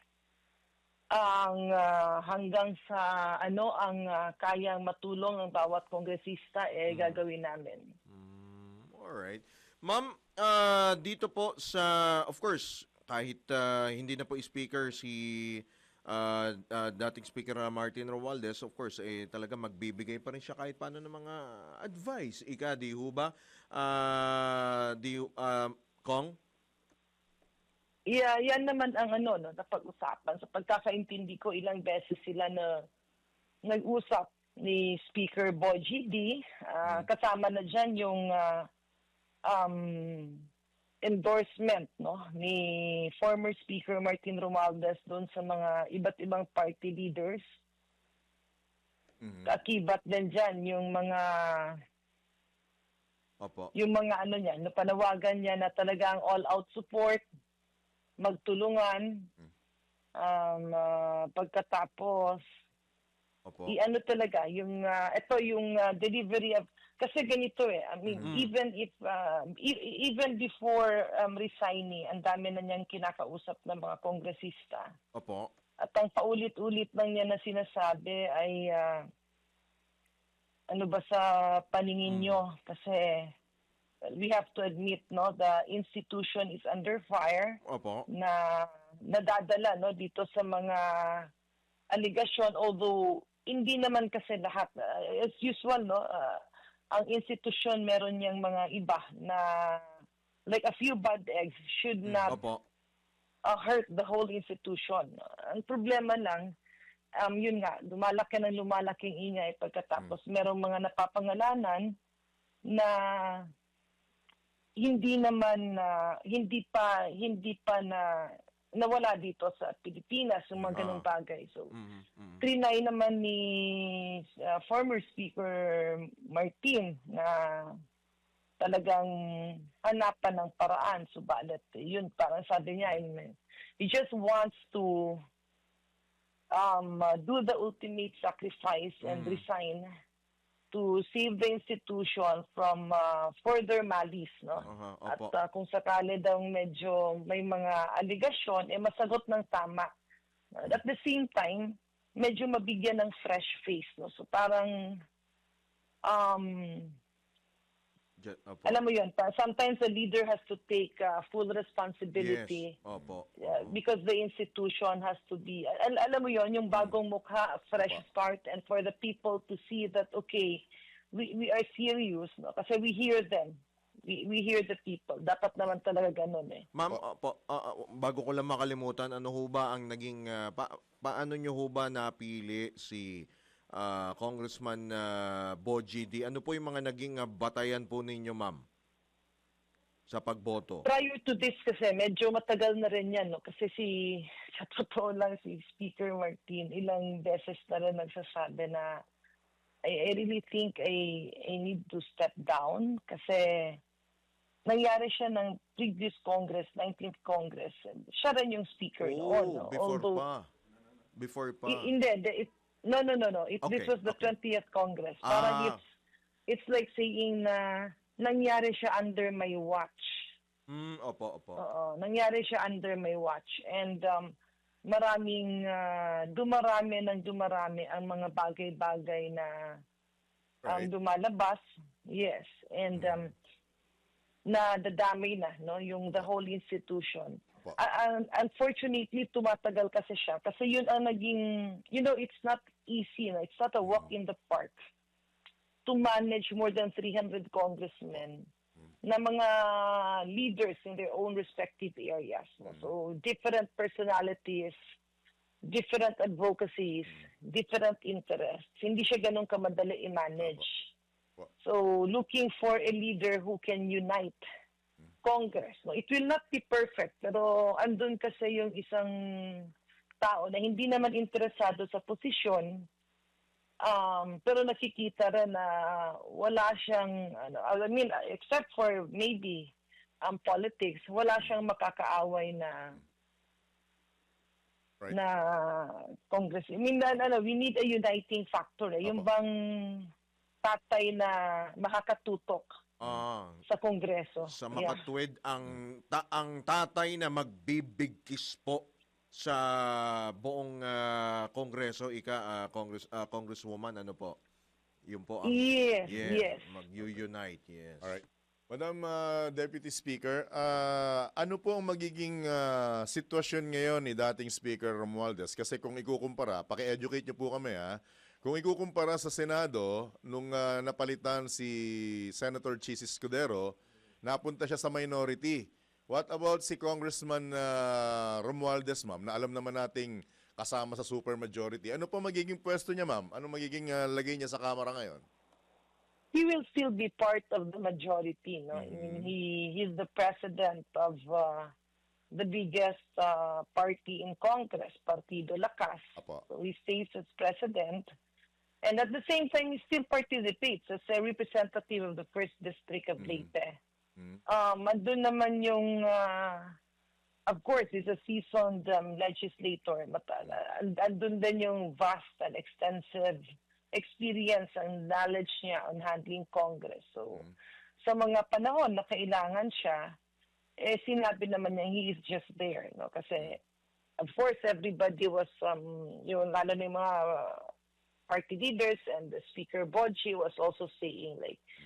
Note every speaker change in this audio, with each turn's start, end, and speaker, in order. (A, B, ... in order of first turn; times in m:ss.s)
0:01.1-0:07.9 A
0:06.9-0:07.2 B
0:08.1-0:26.3 B
0:28.1-0:32.9 A
0:33.6-0:38.7 A
0:39.4-0:40.5 A
0:41.0-0:47.4 A
0:49.2-0:49.5 C
0:49.4-0:51.8 A
0:53.4-0:53.7 B
0:53.7-0:57.2 A
0:58.2-0:59.3 A
1:00.1-1:02.4 A
1:03.4-1:03.7 B
1:03.7-1:15.0 A
1:08.1-1:08.3 C
1:08.2-1:08.5 B
1:15.1-1:15.5 B
1:15.8-1:19.1 A
1:20.7-1:23.3 A
1:22.0-1:22.4 B
1:24.0-1:31.3 A
1:27.6-1:28.1 B
1:31.9-1:36.4 A
1:36.9-1:42.4 A
1:42.0-1:42.4 C
1:42.3-1:42.6 B
1:43.4-1:46.5 A
1:47.2-1:52.0 A
1:52.7-1:53.5 A
1:54.8-2:01.7 A
2:00.6-2:00.8 C
2:00.7-2:01.0 B
2:01.7-2:02.4 B
2:02.4-2:07.8 A
2:08.6-2:15.2 A
2:16.5-2:19.9 A
2:19.0-2:19.4 B
2:20.7-2:29.9 A
2:24.6-2:25.3 B
2:30.5-2:35.0 A
2:36.0-2:37.0 A
2:38.2-2:38.8 B
2:38.6-2:42.8 A
2:42.1-2:43.8 B
2:43.4-2:56.7 A
2:56.7-3:05.1 B
3:05.6-3:08.6 B
3:10.1-3:10.8 B
3:10.8-3:19.0 A
3:19.8-3:23.8 A
3:24.6-3:30.2 A
3:29.0-3:30.5 B
3:31.2-3:31.9 B
3:31.6-3:35.8 A
3:33.6-3:34.3 B
3:35.2-3:35.8 B
3:36.5-3:40.3 A
3:40.7-3:41.6 B
3:41.6-3:49.8 A
3:50.6-3:50.9 C
3:50.6-3:53.3 A
3:54.4-4:04.8 A
4:05.8-4:08.5 A
4:09.0-4:14.8 A
4:15.6-4:20.9 A
4:21.6-4:24.4 A
4:25.2-4:32.9 A
4:33.8-4:43.0 A
4:45.1-4:50.1 A
4:50.6-4:52.8 A
4:53.0-4:53.6 B
4:53.6-4:55.0 A
4:54.4-5:04.4 B
5:05.1-5:08.1 B
5:05.4-5:06.6 A
5:08.0-5:35.2 C
5:36.3-5:41.7 A
5:38.7-5:39.3 C
5:42.3-5:48.1 A
5:46.2-5:46.4 C
5:48.8-5:53.8 A
5:53.2-5:53.5 C
5:54.4-5:56.8 A
5:57.5-6:07.5 A
6:08.0-6:10.2 A
6:10.8-6:13.6 A
6:14.2-6:17.7 A
6:18.3-6:21.6 A